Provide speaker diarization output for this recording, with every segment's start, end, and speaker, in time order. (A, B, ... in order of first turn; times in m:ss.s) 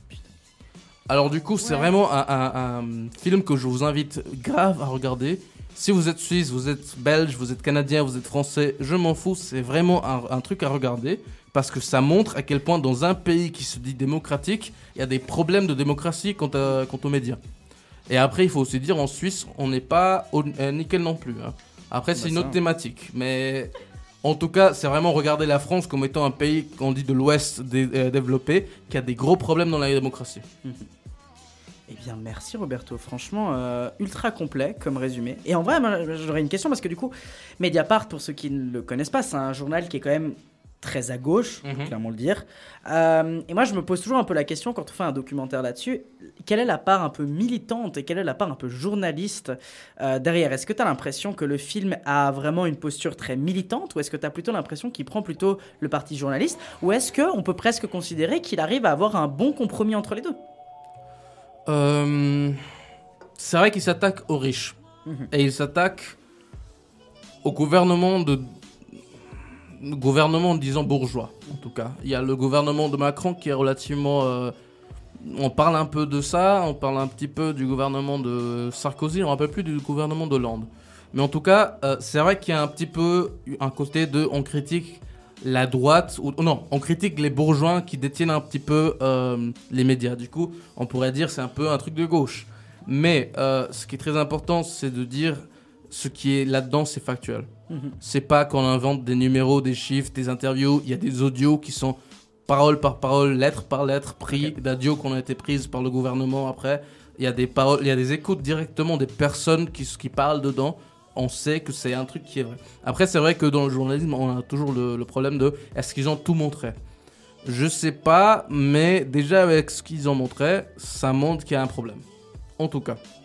0:01.1-0:17.4 A
0:18.1-0:23.7 A
0:22.2-0:22.6 B
0:24.2-0:30.4 A
0:31.9-1:00.4 B
0:41.6-0:41.9 A
1:01.7-1:02.6 A
1:03.4-1:04.8 A
1:05.3-1:06.2 A
1:07.4-1:08.5 A
1:09.8-1:14.5 A
1:15.2-1:37.5 A
1:37.7-1:38.0 B
1:38.0-1:56.8 A
1:44.3-1:44.6 B
1:57.4-2:02.0 A
2:02.6-2:03.0 A